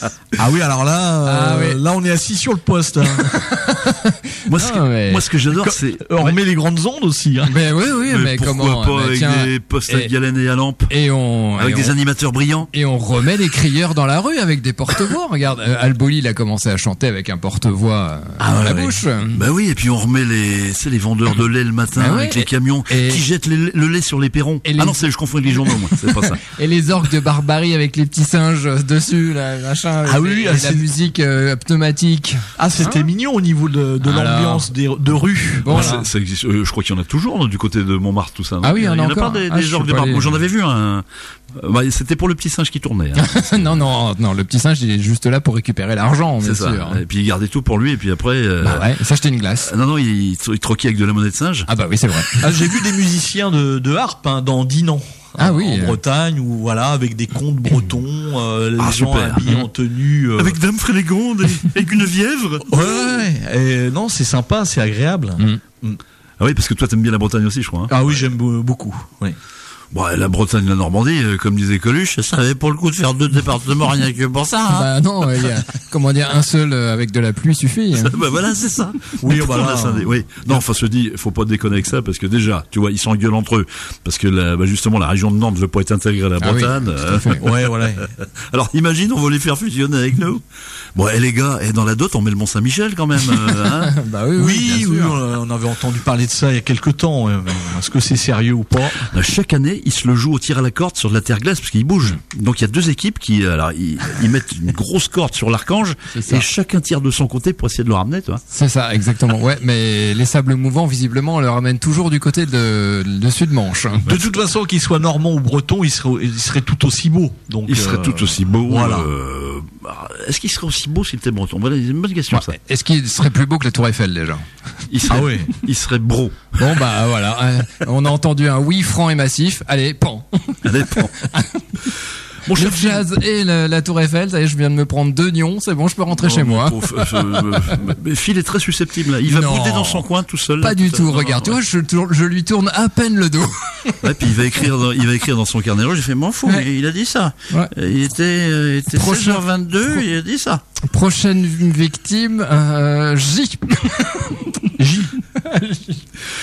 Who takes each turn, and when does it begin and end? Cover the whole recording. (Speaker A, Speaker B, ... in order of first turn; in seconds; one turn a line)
Speaker A: 0.4-3.3
Speaker B: 1.2-1.8
Speaker B: 3.2-5.2
Speaker C: 4.5-6.4
Speaker A: 5.5-7.5
Speaker B: 7.5-10.1
Speaker C: 8.1-10.9
Speaker B: 10.9-11.9
Speaker C: 11.6-12.7
Speaker B: 12.7-19.4
Speaker A: 18.4-19.0
Speaker C: 19.3-26.4
Speaker B: 22.0-23.2
Speaker B: 24.6-33.1
Speaker A: 30.1-30.9
Speaker A: 32.6-36.1
Speaker B: 34.0-34.7
Speaker B: 35.6-36.0
Speaker C: 35.7-43.6
Speaker B: 38.6-40.4
Speaker B: 43.2-47.0
Speaker C: 46.4-48.9
Speaker B: 48.6-49.7
Speaker C: 49.6-51.7
Speaker B: 51.7-52.5
Speaker A: 52.4-60.6
Speaker B: 55.4-56.0
Speaker C: 58.8-59.6
Speaker C: 60.4-62.8
Speaker A: 62.7-66.0
Speaker C: 66.4-68.2
Speaker A: 67.9-69.4
Speaker C: 69.9-74.9
Speaker B: 74.7-78.1
Speaker C: 78.0-90.4
Speaker A: 79.2-80.6
Speaker B: 86.4-87.4
Speaker A: 87.4-88.1
Speaker C: 91.0-94.0
Speaker B: 93.8-95.2
Speaker A: 94.4-99.1
Speaker C: 99.1-108.4
Speaker B: 106.1-106.5
Speaker B: 108.5-114.1
Speaker C: 114.1-114.3
Speaker A: 114.1-119.1
Speaker C: 117.7-122.6
Speaker B: 122.3-124.5
Speaker C: 124.9-126.6
Speaker A: 125.1-125.6
Speaker B: 126.6-131.9
Speaker C: 130.6-131.2
Speaker C: 132.4-133.0
Speaker B: 132.5-137.8
Speaker C: 136.2-141.6
Speaker B: 139.3-144.1
Speaker C: 144.0-150.6
Speaker B: 148.9-150.0
Speaker B: 150.8-154.8
Speaker A: 154.8-155.1
Speaker B: 155.3-156.0